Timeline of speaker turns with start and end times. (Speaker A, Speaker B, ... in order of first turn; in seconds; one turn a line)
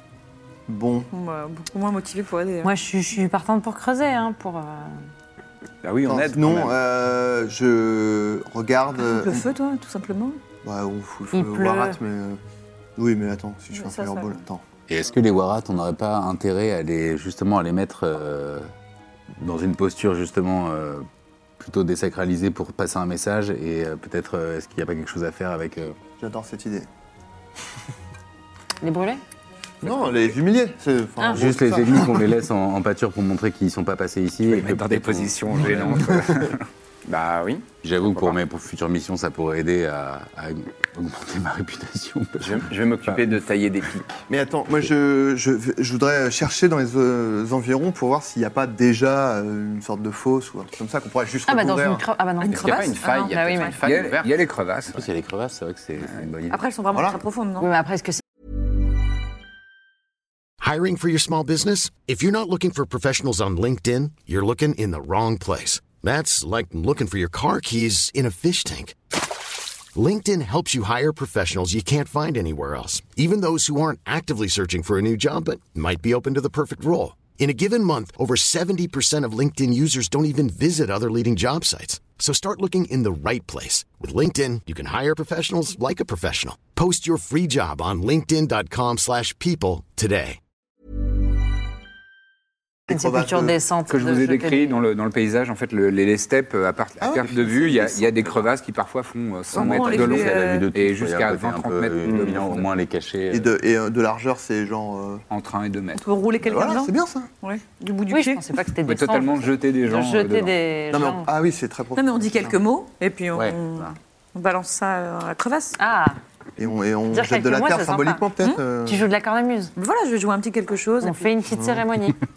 Speaker A: 0.7-1.1
Speaker B: 1.1-2.7
Speaker C: 2.6-5.1
Speaker D: 5.8-6.8
Speaker A: 6.0-9.5
Speaker B: 9.0-10.4
Speaker A: 10.6-12.4
Speaker C: 11.3-12.0
Speaker A: 12.9-14.6
Speaker B: 13.7-14.4
Speaker E: 14.9-18.7
Speaker E: 19.3-21.1
Speaker E: 21.6-26.0
Speaker A: 26.2-26.9
Speaker C: 28.8-29.2
Speaker A: 29.8-32.3
Speaker C: 31.2-31.5
Speaker E: 31.3-36.1
Speaker F: 34.4-36.6
Speaker D: 37.0-38.4
Speaker E: 37.8-43.3
Speaker D: 42.4-44.2
Speaker A: 44.3-52.0
Speaker C: 51.5-53.7
Speaker B: 52.4-53.7
Speaker D: 52.5-54.3
Speaker F: 53.8-55.1
Speaker E: 54.9-56.6
Speaker F: 56.0-56.3
Speaker B: 56.5-57.7
Speaker A: 56.9-57.2
Speaker C: 57.6-58.2
Speaker G: 60.6-69.0
Speaker G: 69.9-90.4
Speaker A: 92.9-93.6
Speaker C: 92.9-94.8
Speaker F: 93.9-102.7
Speaker A: 97.0-98.2
Speaker E: 99.5-103.5
Speaker B: 99.5-100.7
Speaker D: 102.0-102.3
Speaker A: 103.3-105.2
Speaker F: 105.3-106.0
Speaker B: 105.9-108.4
Speaker A: 106.4-107.3
Speaker C: 108.1-111.3
Speaker F: 108.8-110.5
Speaker A: 110.9-112.6
Speaker B: 112.0-115.8
Speaker E: 113.3-113.9
Speaker C: 115.8-116.2
Speaker A: 116.6-119.1
Speaker C: 117.1-118.2
Speaker C: 118.8-119.7
Speaker B: 119.8-121.3
Speaker C: 121.0-122.2
Speaker A: 121.5-121.8